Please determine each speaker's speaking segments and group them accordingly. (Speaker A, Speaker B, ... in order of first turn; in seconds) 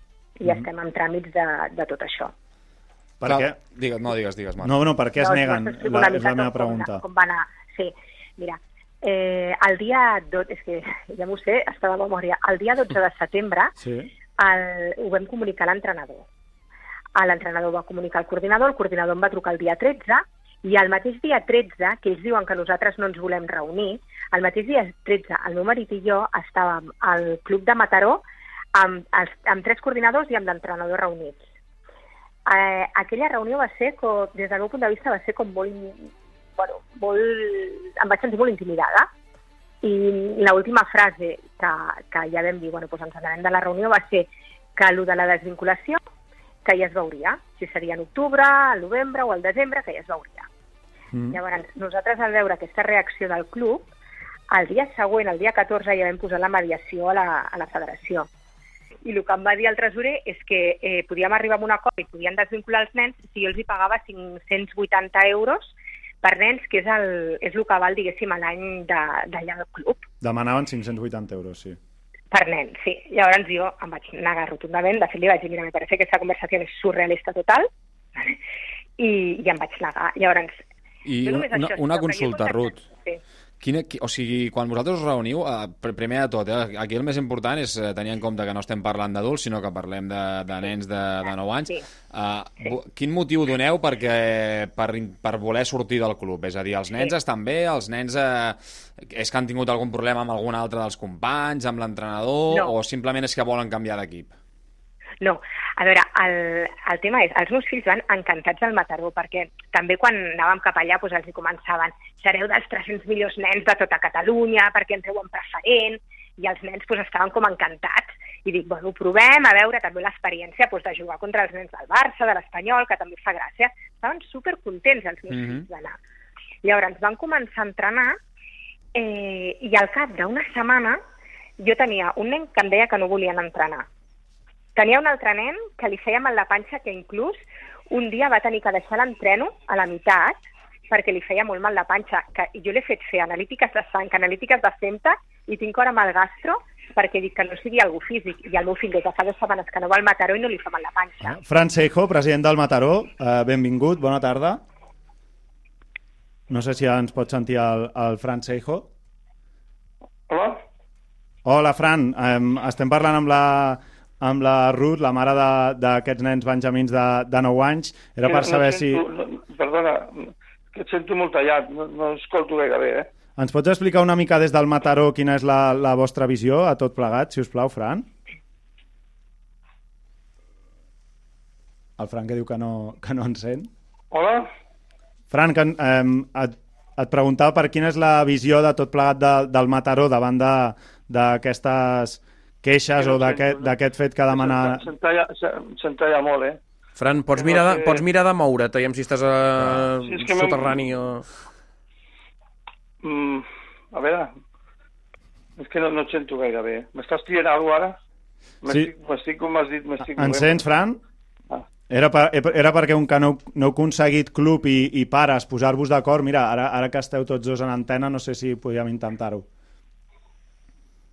Speaker A: 0.4-2.3, 5.2-13.7, 14.4-16.2, 17.1-28.2, 28.7-31.4, 32.5-39.1, 39.8-46.0, 46.6-50.5, 51.3-53.9, 54.5-58.3, 59.0-70.0, 72.3-77.7, 79.0-80.6, 81.2-83.2, 105.2-126.0, 126.6-128.2, 128.9-131.0, 131.6-133.9, 134.8-137.4, 137.9-151.4
Speaker B: 3.2-3.6, 4.6-7.0, 13.8-14.1, 51.1-51.4, 70.2-71.8, 151.3-154.6, 156.5-158.9, 161.4-169.0, 173.4-178.1, 182.0-183.7, 185.3-194.8, 210.2-211.0, 211.9-219.4
Speaker C: 3.2-4.8, 81.0-82.8, 83.6-104.3, 125.3-125.6
Speaker D: 160.3-160.6, 168.2-173.1, 184.1-184.5, 192.9-196.6, 197.3-198.1, 200.0-200.8, 203.0-204.3, 205.6-208.0, 208.6-210.6
Speaker E: 196.9-201.2